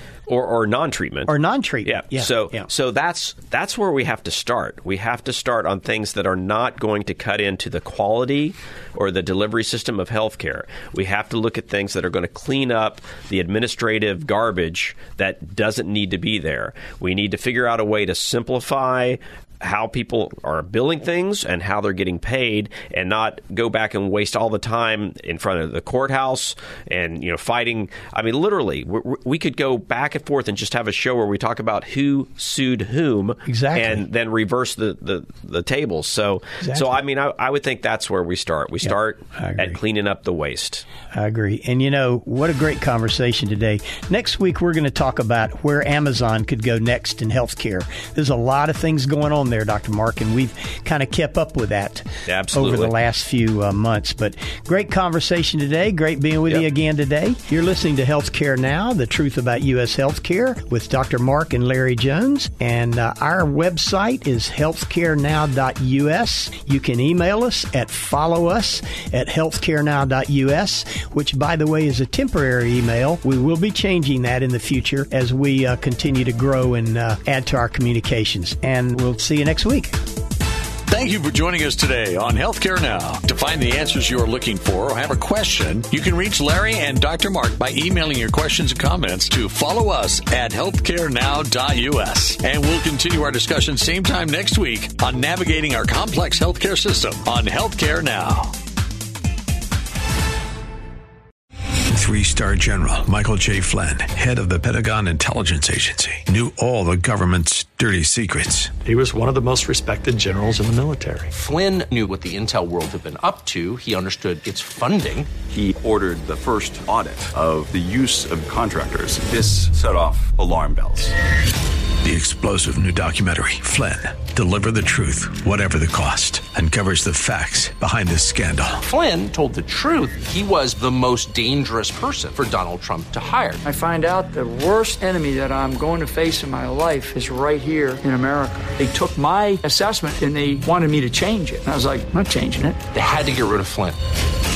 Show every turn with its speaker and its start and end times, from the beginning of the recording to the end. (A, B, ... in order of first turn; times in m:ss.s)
0:00.3-0:40.9 A
0:01.3-0:02.7 B
0:33.5-0:34.0 B
0:36.6-0:36.9 B
0:38.8-0:39.8 B
0:41.1-1:20.0 B
0:52.3-0:52.9 A
1:20.9-1:38.6 C
1:41.9-1:48.8 D
1:48.8-1:51.3 E
1:51.3-1:55.4 F
1:55.5-2:01.2 G
2:02.0-2:08.8 D
2:08.8-2:13.6 F
2:13.6-2:22.8 H
2:22.9-2:24.0 F